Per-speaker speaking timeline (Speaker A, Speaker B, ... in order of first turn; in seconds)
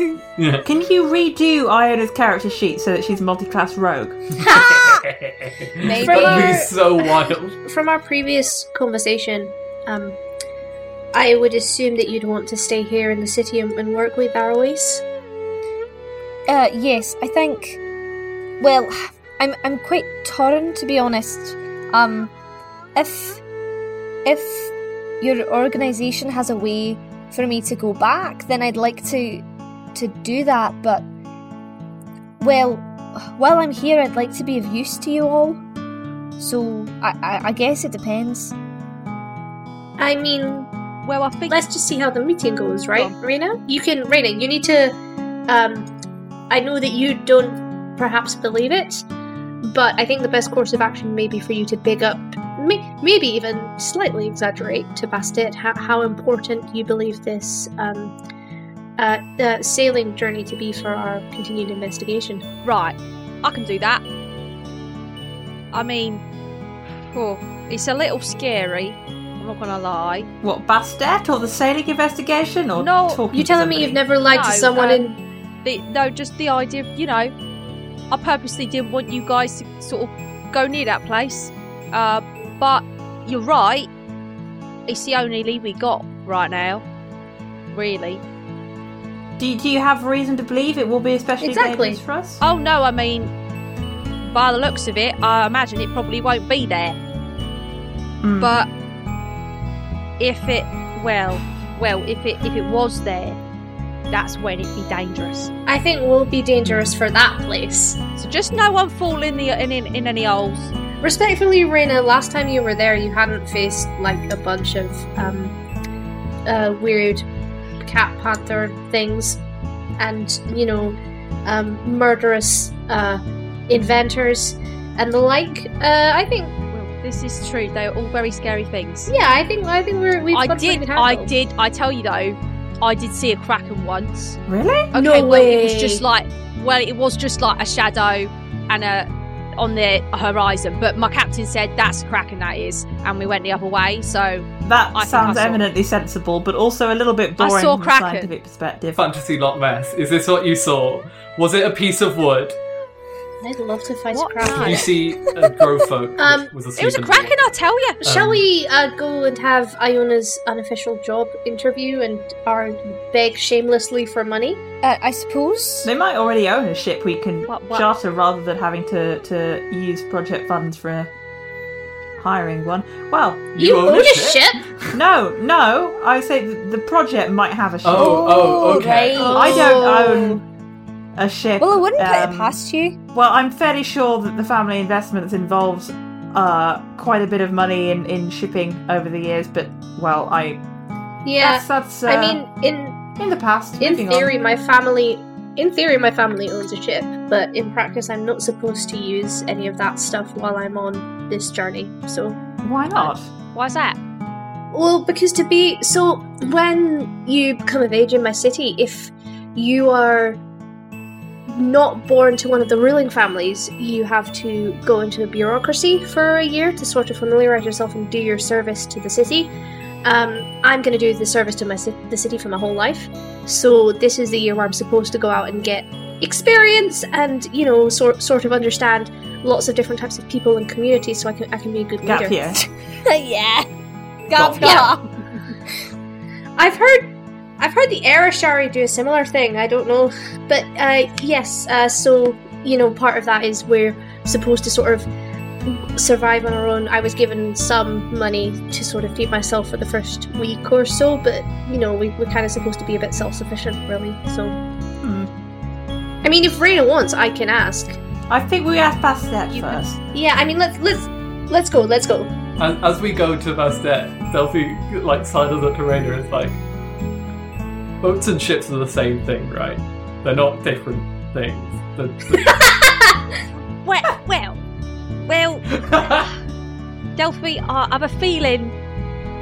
Speaker A: 0.3-0.7, 4.3-7.5, 148.9-152.6, 154.5-157.5, 158.0-158.4, 173.5-174.9, 177.8-179.5, 234.4-234.9, 262.6-266.6, 268.0-272.6, 275.7-276.3
Speaker B: 0.6-4.2, 70.4-74.0, 89.4-92.4, 98.2-98.5, 106.6-106.9, 134.5-134.9, 144.6-149.1, 165.8-171.1, 172.2-173.4, 174.9-178.3, 179.2-180.4, 181.2-182.5, 183.1-190.6, 191.4-192.4, 193.2-194.3, 202.6-203.3, 232.0-232.6, 255.0-255.3, 258.3-260.0
Speaker C: 4.4-5.0, 6.0-10.2, 11.1-15.0, 40.0-40.7, 41.5-44.9, 45.5-45.9, 46.5-49.0, 49.6-58.1, 59.0-62.4, 73.3-75.2, 91.4-92.0, 105.7-108.0, 111.0-115.6, 116.5-117.2, 117.8-119.4, 120.0-126.5, 129.1-131.3, 134.9-136.0, 153.4-154.9, 156.2-156.5, 158.0-164.6, 173.6-174.6, 179.4-179.9, 191.2-193.0, 193.8-202.4, 204.7-210.4, 211.5-219.5, 220.0-232.5, 234.6-234.9, 236.6-245.1, 245.7-254.6, 256.2-258.0, 260.1-262.3, 272.4-273.2
Speaker D: 5.8-6.7, 16.5-17.8, 18.6-22.3, 22.9-23.4, 24.2-31.1, 32.4-35.6, 36.4-38.5, 164.8-165.9, 177.9-180.3, 181.6-183.0, 233.0-233.7, 234.3-235.0
Speaker E: 41.0-41.6, 62.6-64.0, 65.7-66.2, 67.0-70.3, 72.8-73.2, 74.3-77.3, 78.1-83.9, 84.9-86.8, 87.7-88.2, 92.4-93.3, 94.2-97.0, 98.4-98.7, 100.2-103.4, 104.1-105.5, 108.2-110.7, 126.7-129.1, 130.3-134.4, 134.9-145.6, 147.4-148.3, 154.1-154.9, 156.8-158.0, 167.5-167.9, 202.9-204.0, 273.8-274.6, 275.2-275.7, 277.2-278.7